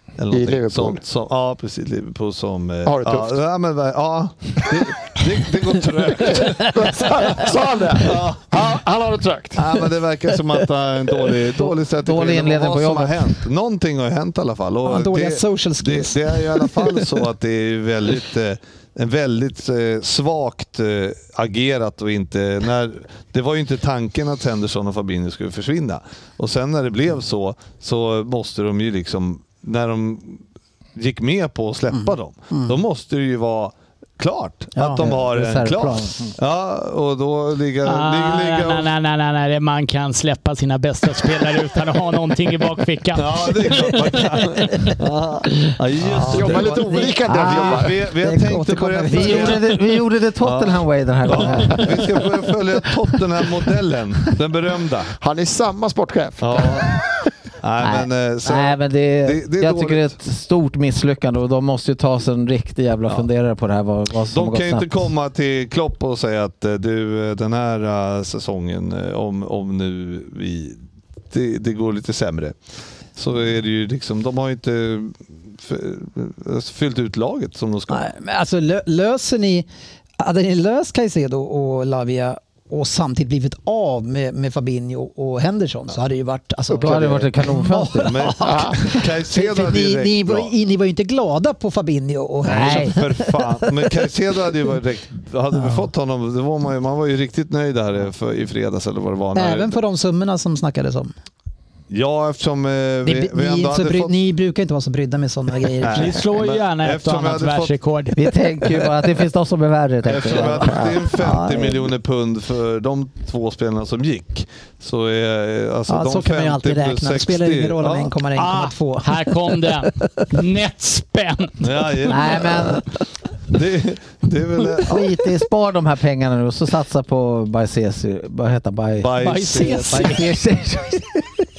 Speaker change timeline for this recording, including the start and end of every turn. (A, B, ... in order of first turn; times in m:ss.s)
0:00.2-0:08.7 A
0:00.3-0:01.0 B
0:02.8-0:03.4 B
0:06.2-0:09.6 B
0:09.5-0:30.4 A
0:11.5-0:13.3 C
0:14.8-0:17.0 D
0:31.0-0:38.9 A
0:31.9-0:32.7 D
0:34.8-0:35.0 D
0:34.8-0:36.3 C
0:37.8-0:44.1 E
0:43.1-0:49.8 A
0:43.9-0:45.0 D
0:46.1-0:49.6 D
0:46.3-0:48.0 B
0:47.3-0:47.6 C
0:49.0-0:52.1 C
0:50.4-0:55.1 A
0:55.2-0:56.8 B
0:56.4-0:57.0 A
0:57.6-1:00.1 A
0:57.8-1:04.9 C
1:04.3-1:10.8 A
1:11.3-1:12.6 A
1:13.1-1:18.0 A
1:17.9-1:19.6 D
1:20.2-1:34.0 D
1:26.7-1:28.3 C
1:26.8-1:27.2 A
1:28.0-1:30.5 A
1:28.4-1:28.8 B
1:32.4-1:39.7 A
1:32.4-1:33.0 C
1:35.5-1:35.8 D
1:39.3-1:41.1 D
1:41.9-1:44.1 A
1:43.0-1:46.2 D
1:45.8-1:47.7 A
1:45.9-1:48.2 E
1:48.1-1:51.7 C
1:50.0-1:58.2 A
1:50.6-1:51.0 B
1:51.2-1:51.6 D
1:55.9-1:59.6 D
1:58.4-2:01.6 E
2:01.6-2:02.8 A
2:02.0-2:02.8 C
2:03.5-2:05.1 A
2:04.8-2:11.2 C
2:09.0-2:09.9 A
2:09.2-2:10.3 E